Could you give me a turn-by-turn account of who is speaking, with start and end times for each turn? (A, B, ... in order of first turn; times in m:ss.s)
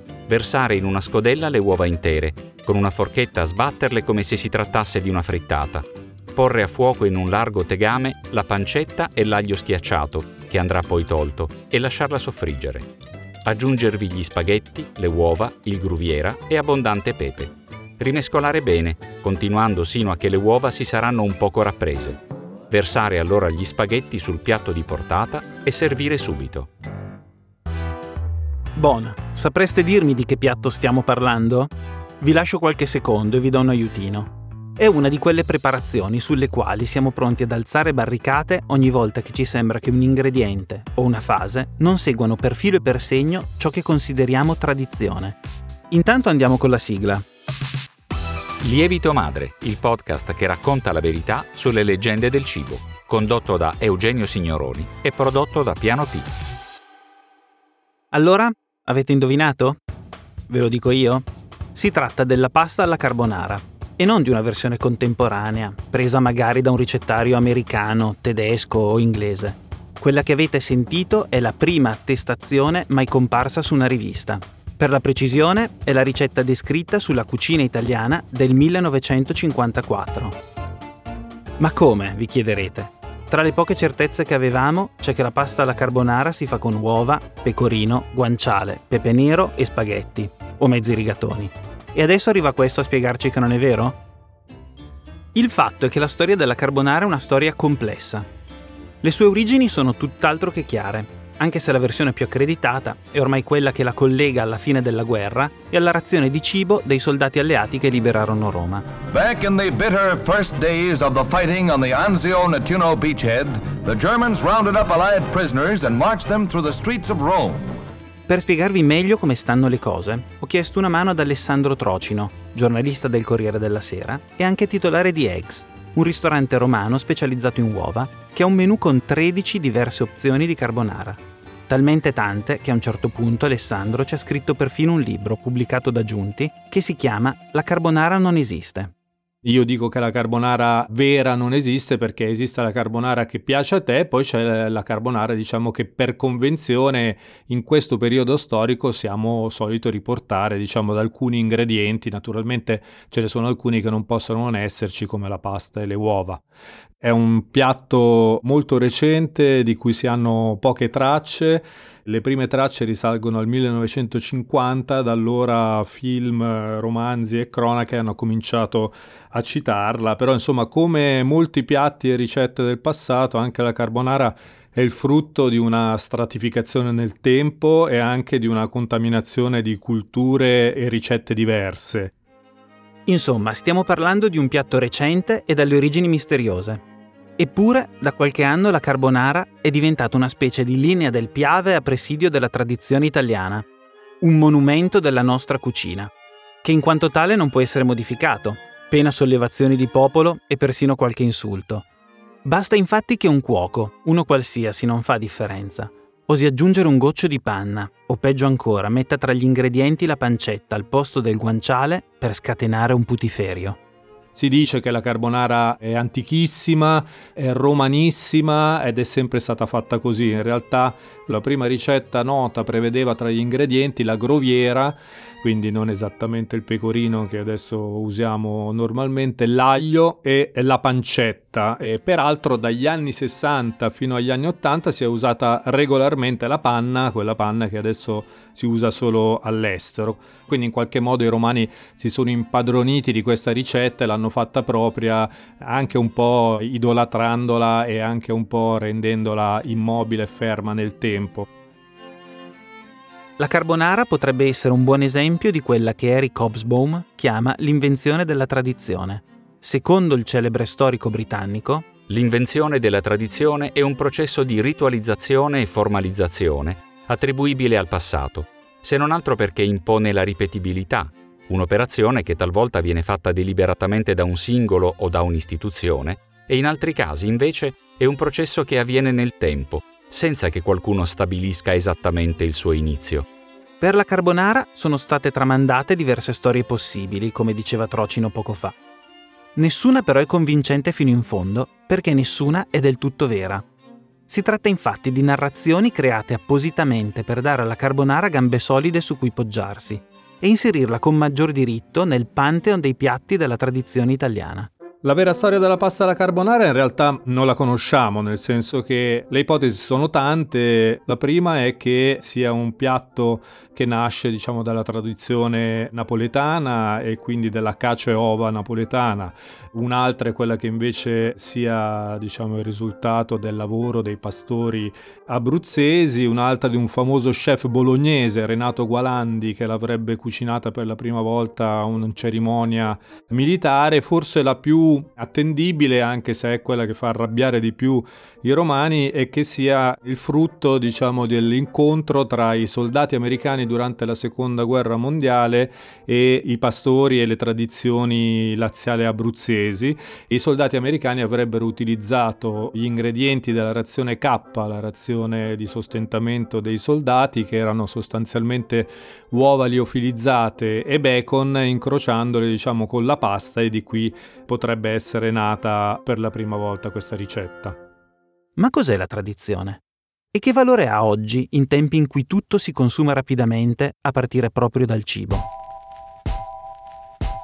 0:00.3-0:12.9 A
0:13.4-0:26.7 A
0:28.8-0:45.4 B
0:45.9-0:47.2 B
0:48.6-0:56.3 A
0:58.1-0:59.8 B
1:00.5-1:20.4 B
1:21.6-1:34.0 B
1:35.3-1:38.3 B
1:39.0-1:48.9 B
1:49.1-1:57.7 C
1:58.3-2:18.9 B
2:19.4-2:36.4 D
2:37.0-3:02.1 D
3:03.0-3:06.8 B
3:07.4-3:13.7 B
3:14.2-3:16.1 B
3:16.6-3:21.8 B
3:22.4-3:33.8 B
3:34.3-4:11.5 D
4:13.4-4:21.9 B
4:22.1-4:43.3 A
4:43.8-4:48.8 B
4:49.6-4:53.6 B
4:54.3-5:04.7 B
5:05.0-6:07.8 D
6:08.6-6:09.8 B
6:10.3-6:15.5 B